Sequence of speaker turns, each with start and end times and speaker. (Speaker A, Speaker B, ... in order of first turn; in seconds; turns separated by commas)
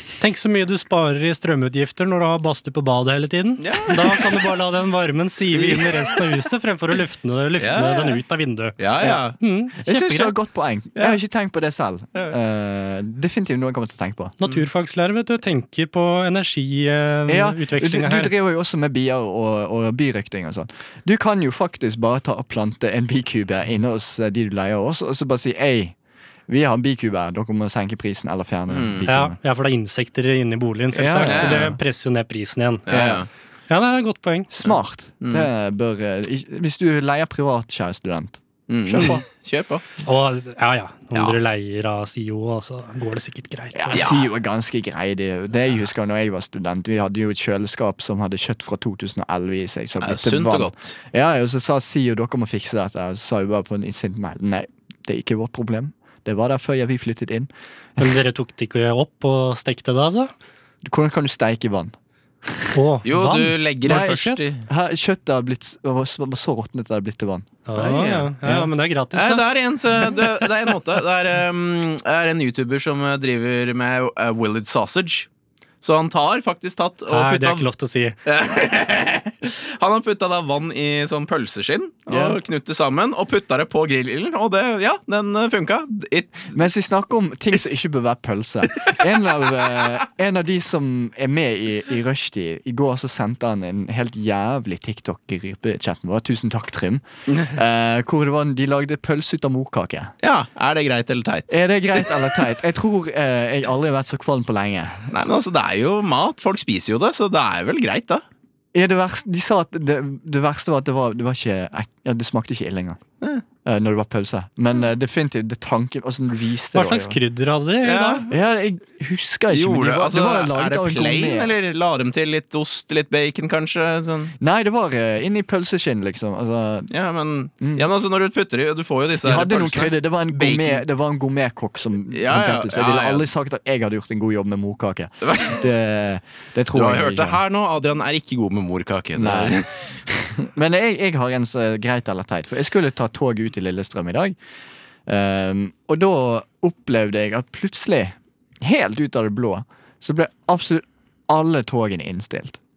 Speaker A: 0.2-8.7, Speaker B: 3.6-4.4, Speaker B: 5.5-6.2, Speaker B: 7.6-8.2, Speaker B: 8.8-9.4, Speaker A: 9.4-10.3, Speaker C: 9.8-14.3, Speaker A: 14.4-18.3, Speaker C: 17.3-25.9, Speaker C: 26.5-29.4, Speaker B: 28.7-29.1, Speaker A: 29.1-32.9, Speaker C: 30.9-31.8, Speaker B: 31.2-31.8, Speaker B: 32.9-33.3, Speaker C: 32.9-33.2, Speaker A: 33.7-34.5, Speaker C: 34.5-39.2, Speaker B: 34.6-35.5, Speaker B: 38.7-39.9, Speaker A: 40.0-44.0, Speaker C: 43.7-57.5, Speaker B: 43.9-44.2, Speaker B: 50.0-51.0, Speaker A: 58.0-60.3, Speaker C: 60.8-61.9, Speaker C: 62.4-62.8, Speaker A: 62.7-64.4, Speaker B: 63.0-64.7, Speaker C: 63.9-68.7, Speaker A: 67.7-69.5, Speaker B: 67.8-68.3, Speaker B: 69.1-75.3, Speaker B: 75.8-77.7, Speaker A: 77.1-78.2, Speaker B: 78.2-86.6, Speaker C: 82.1-82.4, Speaker C: 86.5-100.1, Speaker B: 97.3-97.5, Speaker B: 100.2-102.4, Speaker C: 101.5-105.1, Speaker B: 105.1-108.2, Speaker C: 108.7-113.0, Speaker C: 113.6-117.2, Speaker A: 116.7-118.2, Speaker B: 117.8-118.3, Speaker C: 118.3-121.5, Speaker B: 119.5-124.3, Speaker C: 124.4-126.9, Speaker B: 126.9-130.8, Speaker C: 127.6-127.9, Speaker C: 129.2-137.4, Speaker B: 132.1-133.2, Speaker B: 135.2-135.6, Speaker B: 136.7-139.8, Speaker C: 139.1-144.4, Speaker C: 145.1-152.6